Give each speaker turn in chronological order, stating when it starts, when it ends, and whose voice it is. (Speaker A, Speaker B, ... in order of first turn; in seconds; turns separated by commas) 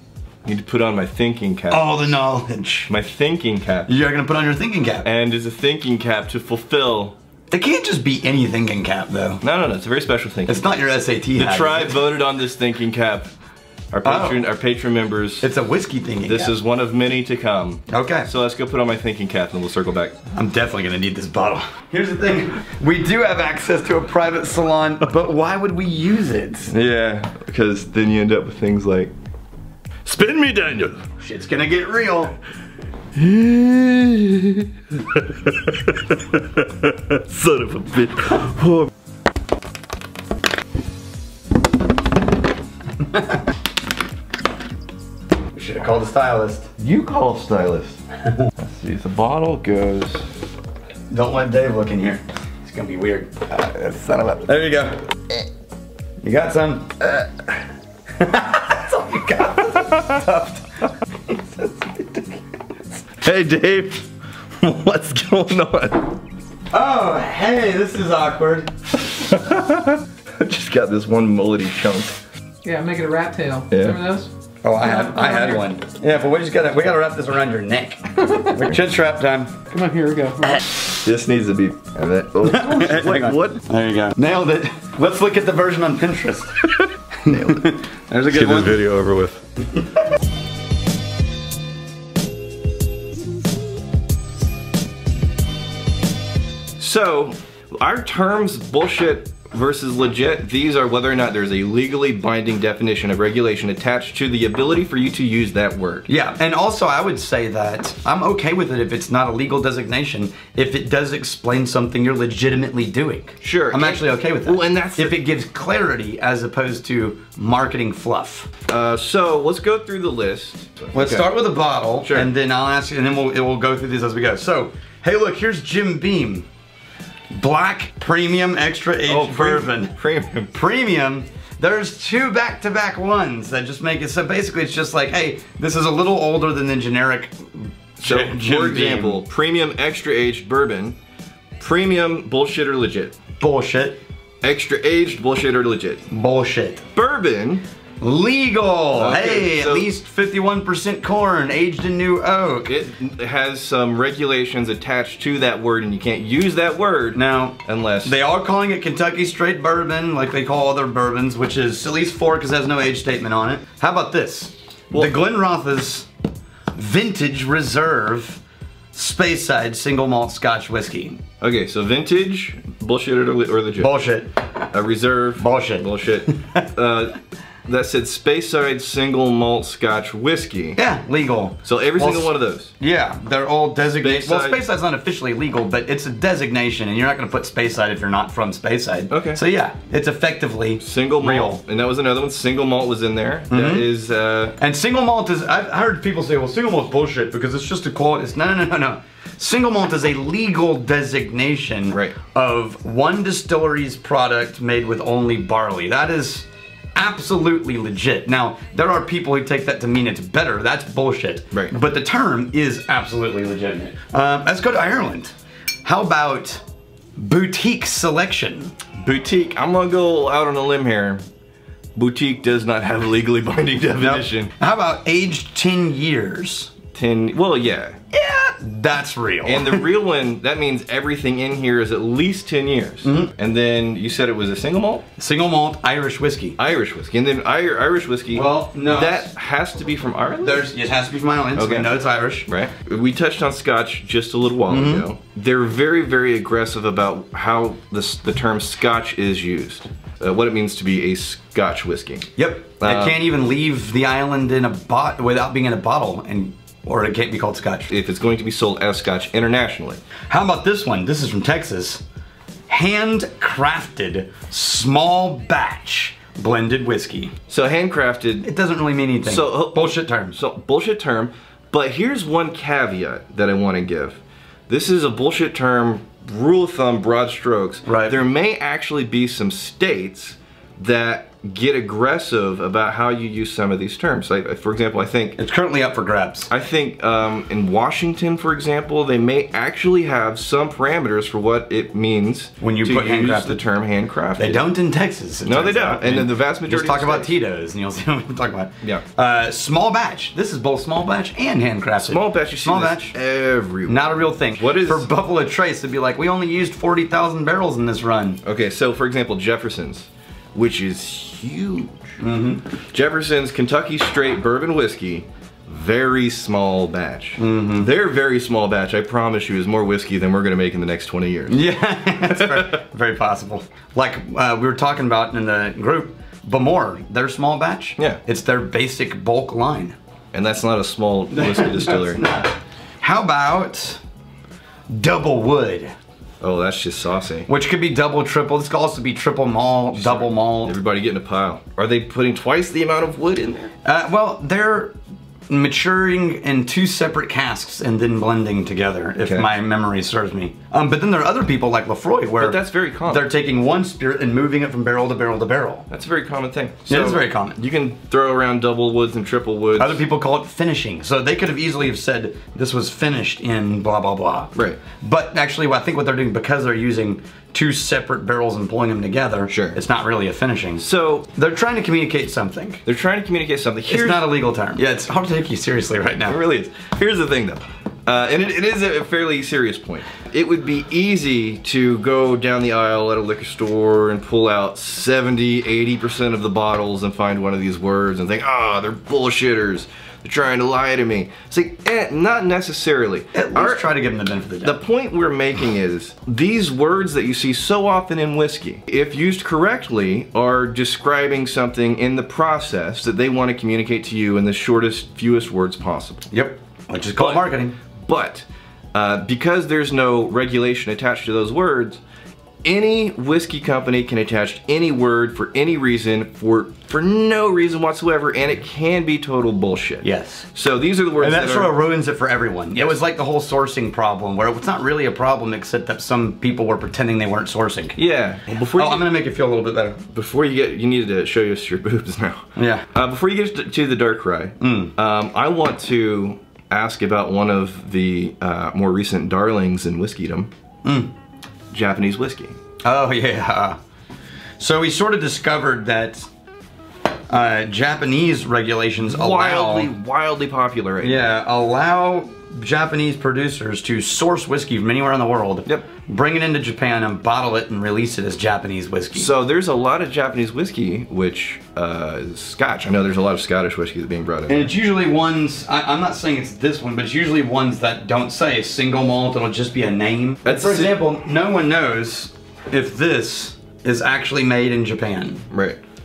Speaker A: 0.4-1.9, Speaker B: 1.7-2.9, Speaker A: 2.9-3.9, Speaker B: 3.9-5.1, Speaker A: 5.0-7.2, Speaker B: 7.5-9.4, Speaker A: 9.4-10.8, Speaker B: 10.5-12.1, Speaker A: 11.3-13.3, Speaker A: 13.9-15.5, Speaker B: 14.0-14.4, Speaker B: 15.4-16.5, Speaker A: 16.2-20.2, Speaker B: 17.9-18.3, Speaker B: 20.3-26.7, Speaker A: 26.7-29.1, Speaker A: 30.0-31.0, Speaker B: 31.2-32.3, Speaker A: 33.1-38.9, Speaker B: 43.1-43.4, Speaker B: 45.5-46.7, Speaker A: 46.8-48.0, Speaker A: 48.6-50.3, Speaker B: 51.1-53.5, Speaker A: 53.5-54.5, Speaker B: 54.4-55.0, Speaker B: 56.2-57.0, Speaker B: 58.2-62.2, Speaker A: 63.2-64.1, Speaker A: 64.6-66.1, Speaker B: 66.7-68.7, Speaker A: 69.1-72.2, Speaker C: 72.6-74.3, Speaker A: 73.7-74.0, Speaker B: 74.6-79.6, Speaker C: 74.9-75.6, Speaker C: 79.7-80.6, Speaker A: 80.8-83.6, Speaker B: 82.4-88.8, Speaker A: 87.3-87.7, Speaker A: 88.3-89.4, Speaker A: 96.8-106.1, Speaker B: 106.1-118.5, Speaker A: 113.4-115.2, Speaker A: 118.7-121.3, Speaker B: 120.9-126.5, Speaker A: 122.0-122.3, Speaker B: 127.3-129.9, Speaker A: 129.1-130.5, Speaker B: 130.5-139.2, Speaker A: 138.0-141.0, Speaker A: 141.6-143.2, Speaker B: 143.4-144.0, Speaker A: 144.4-146.0, Speaker B: 146.1-146.8, Speaker A: 146.9-147.6, Speaker B: 148.0-152.7, Speaker A: 148.9-149.9, Speaker A: 152.7-158.2, Speaker B: 157.1-166.1, Speaker B: 166.7-168.4, Speaker B: 168.9-171.2, Speaker A: 171.4-173.9, Speaker B: 173.8-174.3, Speaker A: 174.7-180.8, Speaker B: 175.4-176.7, Speaker B: 180.8-191.6, Speaker A: 181.6-182.7, Speaker A: 184.0-184.6, Speaker A: 189.1-189.4, Speaker A: 190.8-194.6, Speaker B: 193.5-193.9, Speaker B: 194.6-215.3, Speaker B: 215.8-216.6, Speaker B: 217.2-218.8, Speaker A: 219.0-221.2, Speaker A: 221.9-224.5, Speaker B: 224.0-226.7, Speaker A: 226.9-228.0, Speaker B: 228.1-229.9, Speaker A: 229.4-235.0, Speaker B: 233.0-233.3, Speaker B: 235.2-236.6, Speaker A: 236.6-240.7, Speaker B: 238.3-239.3, Speaker B: 240.4-242.5, Speaker A: 241.6-241.9, Speaker A: 242.5-252.3, Speaker B: 244.7-245.1, Speaker B: 252.3-257.9, Speaker A: 252.8-253.2, Speaker A: 257.9-260.0, Speaker B: 260.3-262.0, Speaker B: 262.7-267.3, Speaker A: 267.5-268.5, Speaker B: 268.4-270.3, Speaker A: 269.2-285.4, Speaker B: 277.9-278.1, Speaker B: 285.4-286.5, Speaker A: 286.5-294.6, Speaker B: 292.6-293.6, Speaker B: 294.4-303.1, Speaker A: 295.4-297.3, Speaker A: 302.1-305.1, Speaker B: 303.9-308.4, Speaker A: 308.4-312.2, Speaker B: 312.2-312.6, Speaker A: 312.9-321.6, Speaker B: 317.4-317.9, Speaker B: 321.5-329.9, Speaker A: 322.3-322.7, Speaker A: 330.3-332.2, Speaker B: 331.3-334.0, Speaker B: 334.9-335.9, Speaker A: 336.4-337.5, Speaker B: 337.5-340.8, Speaker A: 339.9-343.7, Speaker B: 343.8-344.9, Speaker B: 345.5-355.9, Speaker A: 349.2-349.5, Speaker A: 352.4-353.3, Speaker A: 355.9-360.0, Speaker B: 356.9-357.6, Speaker B: 359.8-372.8, Speaker A: 364.5-364.8, Speaker A: 369.5-369.8, Speaker A: 370.8-371.3, Speaker A: 372.8-374.3, Speaker B: 373.9-376.4, Speaker A: 376.2-393.9, Speaker B: 393.3-394.8, Speaker A: 394.6-406.3, Speaker B: 406.3-407.8, Speaker A: 407.2-407.4, Speaker A: 408.0-412.0, Speaker A: 412.6-421.7, Speaker B: 420.0-420.5, Speaker B: 421.2-428.0, Speaker A: 422.7-423.0, Speaker A: 427.9-429.1, Speaker B: 428.7-430.0, Speaker A: 430.1-440.5, Speaker B: 432.6-432.8, Speaker B: 434.6-434.9, Speaker B: 440.8-441.1, Speaker A: 441.7-442.6, Speaker B: 442.8-443.8, Speaker B: 444.6-446.3, Speaker B: 447.3-449.9, Speaker A: 449.0-451.3, Speaker B: 451.0-459.3, Speaker A: 459.1-464.7, Speaker B: 464.5-475.5, Speaker A: 470.4-471.0, Speaker A: 475.5-475.8